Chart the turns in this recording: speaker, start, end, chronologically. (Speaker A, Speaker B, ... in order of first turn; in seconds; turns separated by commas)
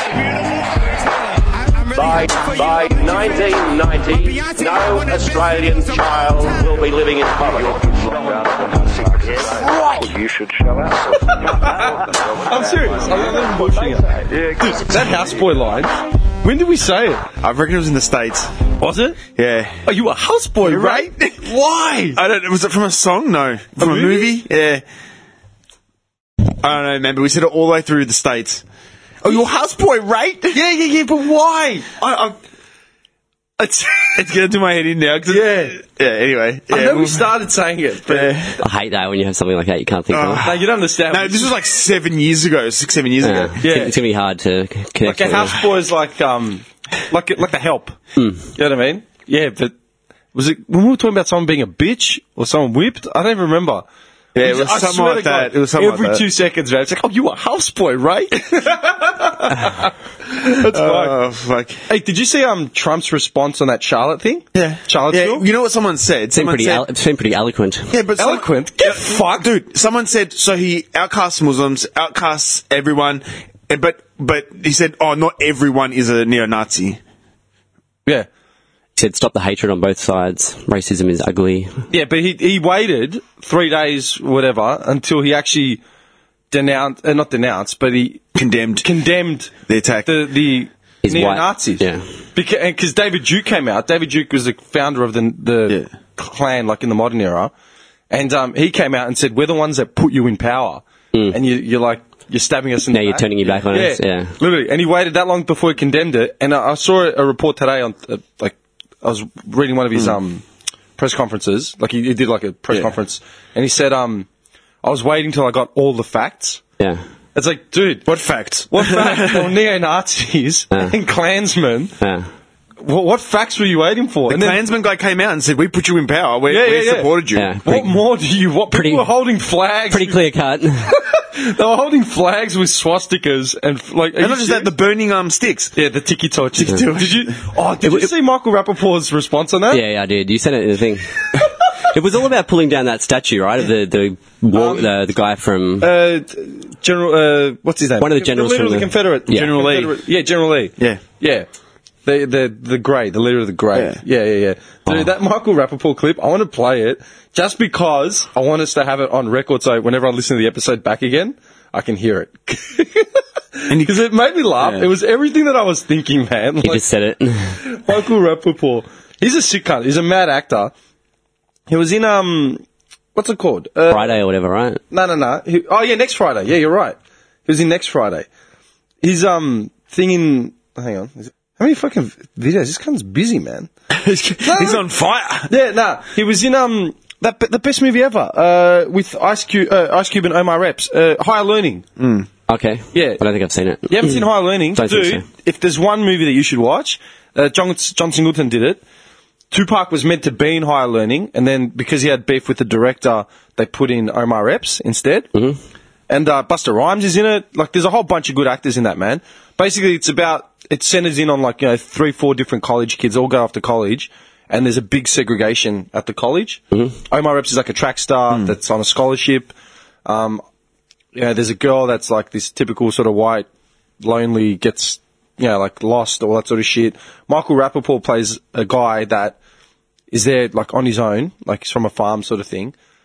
Speaker A: 1.9-8.2, Speaker B: 7.5-15.6, Speaker C: 11.3-17.2, Speaker D: 17.4-18.5, Speaker C: 18.8-19.2, Speaker D: 19.3-19.9, Speaker C: 19.8-22.2, Speaker D: 20.6-21.4, Speaker D: 22.1-24.8, Speaker C: 23.8-24.4, Speaker D: 26.6-28.6, Speaker D: 29.2-30.6, Speaker C: 30.5-32.4, Speaker C: 33.6-34.1, Speaker D: 34.1-37.3, Speaker C: 35.3-35.8, Speaker C: 36.7-38.3, Speaker D: 38.1-38.6, Speaker E: 38.6-40.4, Speaker D: 40.1-43.5, Speaker C: 40.4-41.5, Speaker E: 43.2-45.6, Speaker C: 43.6-43.9, Speaker C: 45.0-49.7, Speaker C: 50.3-53.8, Speaker D: 54.3-56.3, Speaker C: 54.4-61.2, Speaker D: 60.6-61.8, Speaker C: 61.9-65.5, Speaker D: 64.5-66.9, Speaker E: 66.3-67.9, Speaker D: 67.9-77.0, Speaker C: 68.2-69.5, Speaker E: 79.0-81.8, Speaker C: 81.9-85.8, Speaker C: 86.5-88.2, Speaker D: 88.3-88.9, Speaker C: 88.8-89.5, Speaker D: 89.7-90.2, Speaker C: 90.0-97.5, Speaker E: 91.0-92.0, Speaker C: 98.1-110.4, Speaker E: 102.9-104.3, Speaker C: 111.0-114.3, Speaker C: 114.8-116.6, Speaker C: 117.3-118.1, Speaker D: 118.0-119.5, Speaker C: 118.7-121.9, Speaker E: 122.0-122.3, Speaker C: 122.8-124.6, Speaker D: 124.3-127.5, Speaker C: 126.5-130.2, Speaker E: 127.3-128.0, Speaker E: 128.7-129.1, Speaker E: 129.9-130.9, Speaker C: 130.9-134.7, Speaker D: 134.2-135.7, Speaker C: 135.8-139.8, Speaker D: 136.5-137.3, Speaker E: 139.7-145.9, Speaker C: 144.5-144.9, Speaker C: 145.8-151.5, Speaker E: 148.0-149.5, Speaker D: 149.3-150.0, Speaker C: 152.1-166.8, Speaker D: 153.7-154.0, Speaker D: 163.7-164.9, Speaker E: 166.6-167.6, Speaker C: 167.6-170.7, Speaker C: 171.7-172.6, Speaker C: 173.1-174.2, Speaker E: 173.9-174.8, Speaker C: 174.9-176.9, Speaker C: 177.5-178.3, Speaker C: 179.0-183.7, Speaker D: 183.9-185.5, Speaker C: 184.4-184.8, Speaker C: 185.5-191.8, Speaker D: 192.0-192.3, Speaker E: 192.5-195.2, Speaker C: 192.9-193.2, Speaker C: 193.9-198.8, Speaker C: 199.5-205.3, Speaker C: 206.1-219.5, Speaker C: 220.1-220.4, Speaker C: 221.1-223.4, Speaker C: 224.0-229.4, Speaker C: 230.1-232.7